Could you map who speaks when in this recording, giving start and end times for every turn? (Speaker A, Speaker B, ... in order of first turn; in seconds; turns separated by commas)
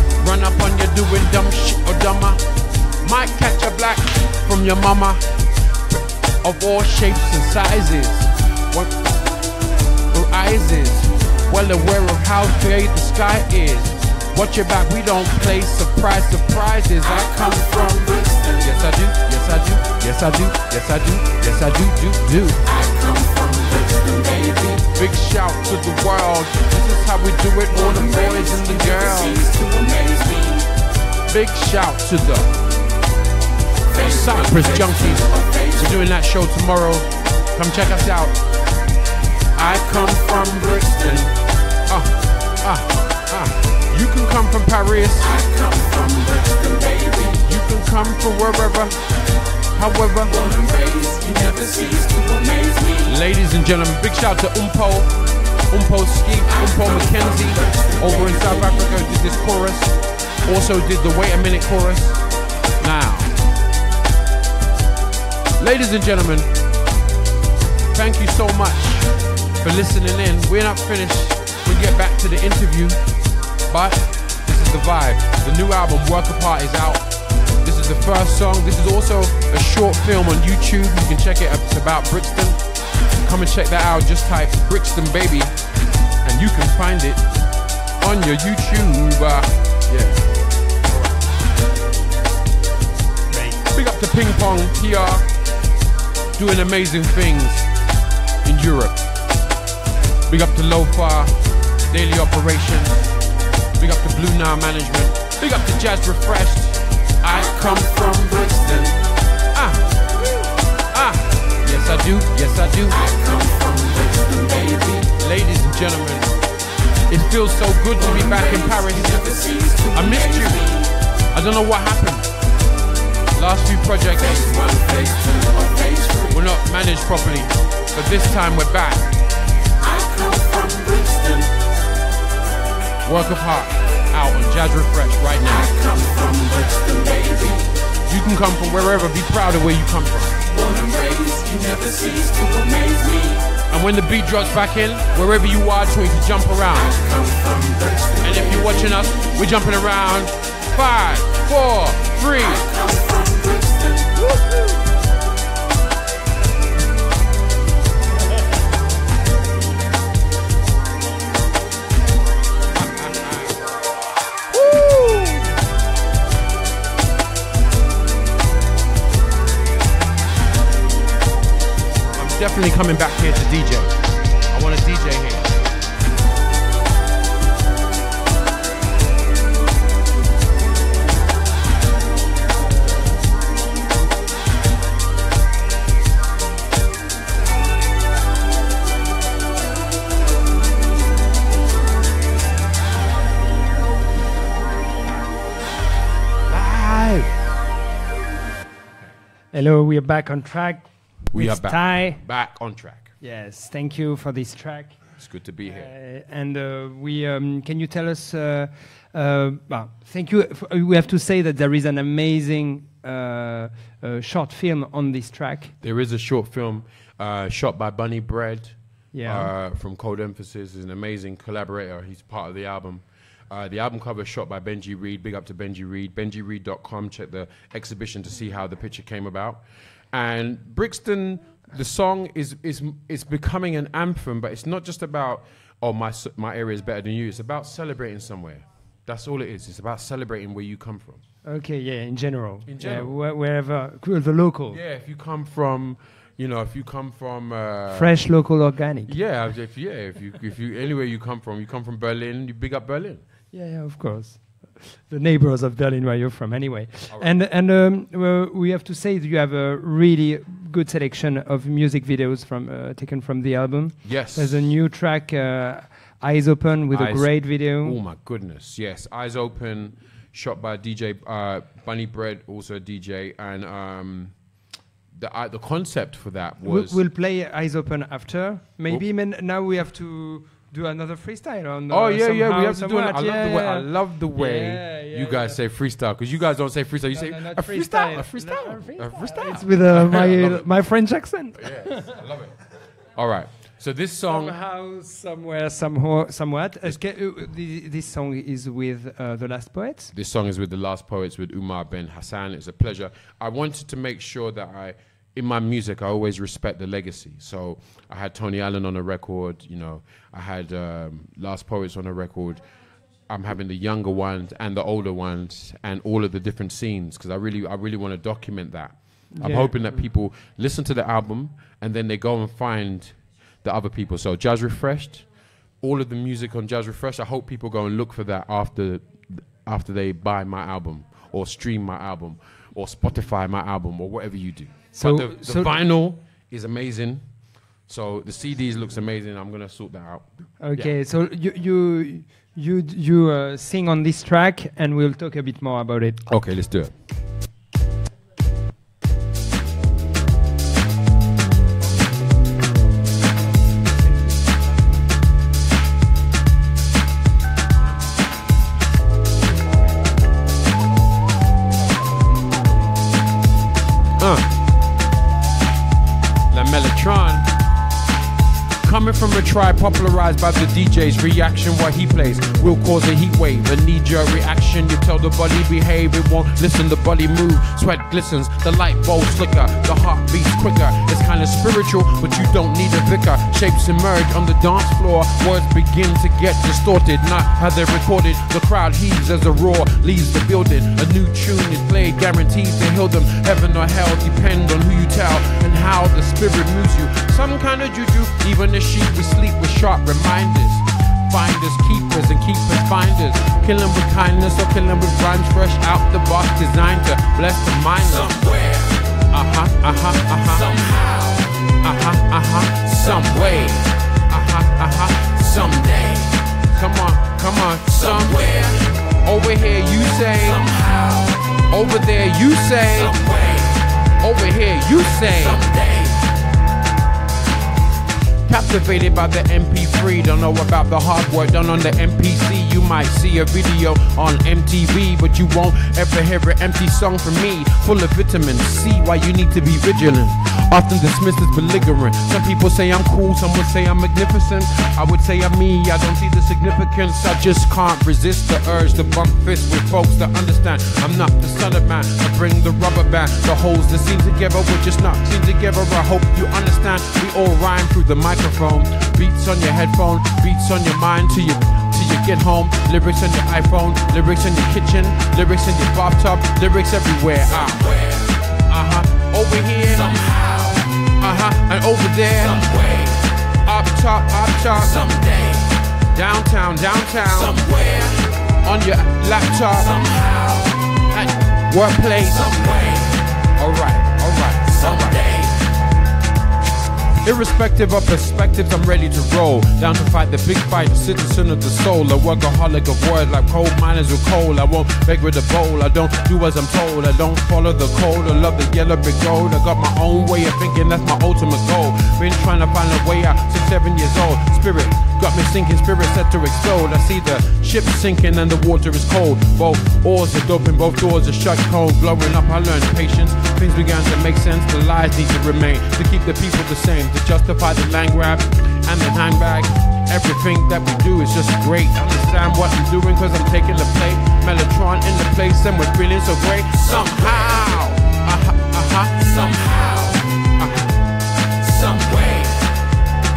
Speaker A: 0.2-2.4, Speaker A: 3.0-5.3, Speaker A: 5.9-8.9, Speaker A: 10.1-22.7, Speaker B: 17.2-18.6, Speaker B: 22.7-24.9, Speaker A: 24.9-29.5, Speaker B: 27.8-30.7, Speaker A: 31.3-32.5, Speaker A: 33.9-38.4, Speaker B: 33.9-35.8, Speaker A: 39.6-41.3, Speaker B: 40.5-41.3, Speaker A: 41.9-45.4, Speaker B: 45.3-47.3, Speaker A: 47.3-49.0, Speaker A: 49.7-50.5, Speaker B: 50.4-53.0, Speaker A: 53.0-55.1, Speaker A: 55.7-62.2, Speaker B: 57.6-58.0, Speaker A: 62.8-63.3, Speaker A: 65.6-66.5, Speaker A: 67.9-73.0, Speaker A: 73.7-82.6, Speaker A: 83.2-85.6, Speaker A: 86.2-87.5, Speaker A: 88.0-90.3, Speaker A: 90.8-91.2, Speaker C: 93.3-93.6, Speaker A: 93.7-95.3, Speaker A: 96.4-97.7, Speaker A: 98.4-99.0, Speaker A: 100.3-101.4, Speaker A: 101.9-103.0, Speaker A: 103.8-108.9, Speaker A: 109.5-113.2, Speaker B: 113.0-115.1, Speaker A: 115.0-116.3, Speaker A: 117.1-122.3, Speaker B: 118.2-120.8, Speaker A: 123.3-124.6, Speaker B: 124.3-126.3, Speaker A: 126.3-129.2, Speaker B: 129.8-131.5, Speaker A: 133.0-135.8, Speaker B: 135.7-137.7, Speaker A: 138.1-140.6, Speaker B: 140.6-143.5, Speaker A: 143.7-147.1, Speaker B: 146.9-148.6, Speaker A: 148.2-152.7, Speaker B: 152.6-154.1, Speaker A: 162.8-163.6, Speaker A: 164.5-165.5, Speaker A: 172.1-174.0, Speaker A: 174.5-175.6, Speaker A: 196.5-197.4, Speaker C: 199.5-202.2, Speaker A: 201.3-203.1, Speaker C: 203.2-205.1, Speaker A: 205.2-205.9, Speaker C: 205.6-215.7, Speaker A: 215.8-241.2, Speaker C: 219.1-219.5, Speaker C: 241.4-244.8, Speaker A: 242.7-243.2, Speaker A: 244.7-248.2, Speaker C: 247.9-249.2, Speaker A: 249.1-253.2, Speaker C: 253.5-268.0, Speaker A: 264.0-264.7, Speaker A: 266.9-274.4, Speaker A: 275.1-277.0, Speaker C: 276.6-285.6, Speaker A: 281.9-290.7, Speaker C: 287.1-292.2, Speaker A: 291.6-292.6, Speaker A: 293.1-294.6, Speaker C: 294.3-300.1, Speaker A: 300.1-312.7, Speaker A: 313.2-325.3, Speaker C: 319.3-320.0, Speaker A: 325.8-337.2, Speaker C: 334.9-335.8, Speaker A: 337.8-340.9, Speaker C: 340.6-346.2, Speaker A: 346.3-346.9, Speaker A: 364.2-364.5, Speaker A: 366.5-367.5, Speaker A: 368.8-408.6, Speaker B: 408.5-409.0, Speaker A: 409.2-410.8, Speaker B: 410.7-411.4, Speaker A: 411.8-425.8, Speaker A: 428.5-475.2, Speaker B: 475.1-475.6, Speaker A: 476.1-485.5, Speaker B: 477.6-478.1, Speaker A: 487.2-531.0, Speaker B: 529.6-530.2, Speaker B: 531.6-532.6